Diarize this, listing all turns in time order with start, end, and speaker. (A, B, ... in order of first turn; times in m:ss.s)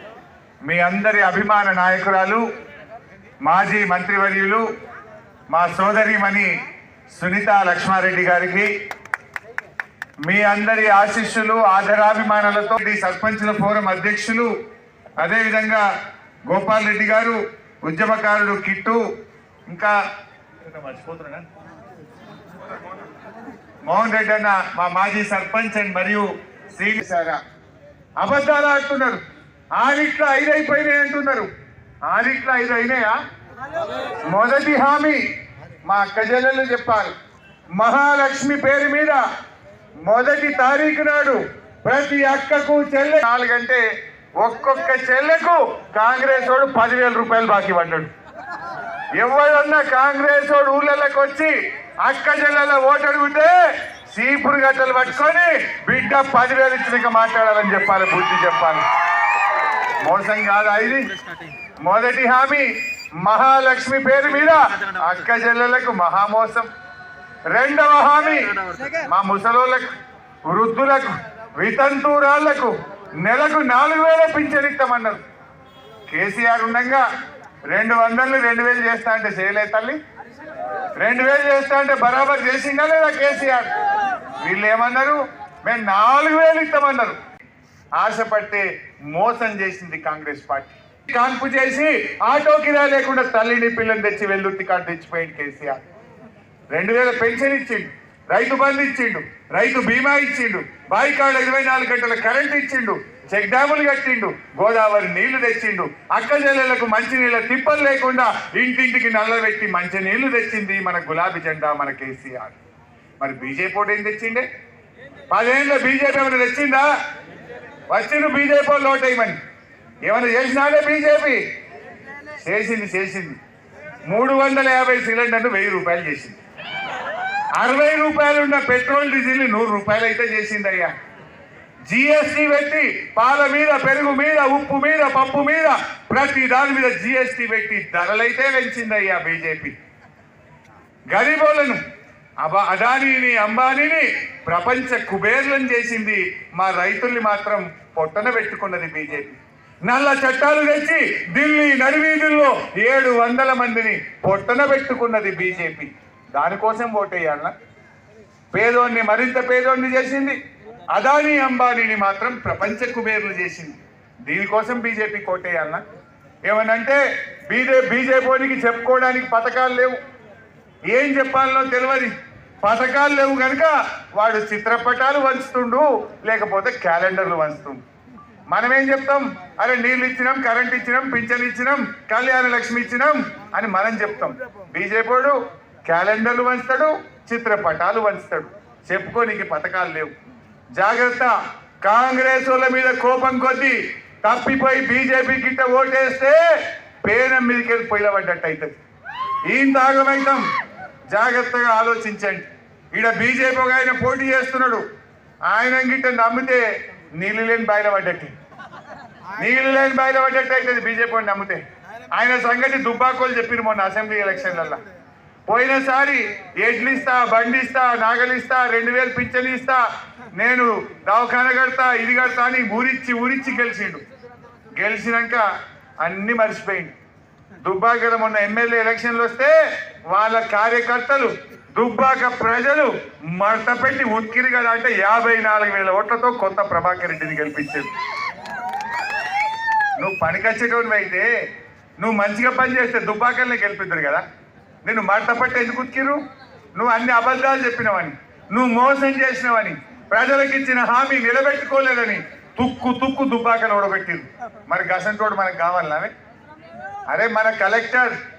0:00.6-0:02.4 A
0:03.4-0:04.6 A
0:05.5-0:06.5 A
0:07.1-0:08.7 A
0:10.2-0:14.5 A
0:15.2-0:15.8 A
0:16.5-0:19.0 A
0:20.7-0:21.5 A
0:23.9-0:27.4 A
0:28.2-0:29.2 A
0:29.8-0:31.5 A
0:32.1-0:33.2 A
0:34.3-0:35.2 A
0:35.9-0:37.1 A
0:37.8-0:39.2 A
0:40.0-0:43.8 A
0:44.4-0:48.1 A
0:49.2-0:53.6 A
0:54.1-0:58.8 A
1:00.0-1:01.1 A
1:01.8-1:02.7 A
1:03.2-1:06.7 A
1:07.5-1:09.9 A
1:10.5-1:15.2 A
1:16.1-1:17.0 A
1:17.7-1:20.0 A
1:21.0-1:23.7 A
1:24.4-1:27.2 A
1:28.0-1:35.8 A
1:36.7-1:52.6 A
1:53.2-1:54.5 A
1:55.3-1:56.9 A
1:57.9-1:59.4 A
2:00.0-2:01.4 A
2:02.4-2:03.4 A
2:04.0-2:06.4 A
2:07.6-2:10.9 A
2:11.9-2:19.7 A
2:21.1-2:21.8 A
2:22.4-2:37.5 A
2:38.5-2:40.4 A
2:40.9-2:45.8 A
2:46.4-2:50.0 A
2:50.9-2:57.8 A
2:58.5-3:10.1 A
3:10.8-3:16.4 A
3:17.0-3:18.8 A
3:19.5-3:20.4 A
3:21.1-3:24.8 A
3:25.5-3:26.6 A
3:27.2-3:28.3 A
3:29.4-3:31.6 A
3:32.1-3:34.8 A
3:35.5-3:39.8 A
3:40.4-3:44.0 A
3:44.7-3:45.4 A
3:46.0-3:46.9 A
3:47.6-3:49.5 A
3:50.1-3:57.9 A
4:00.0-4:01.3 A
4:02.0-4:04.2 A
4:04.8-4:06.2 A
4:06.8-4:16.1 A
4:17.1-4:18.1 A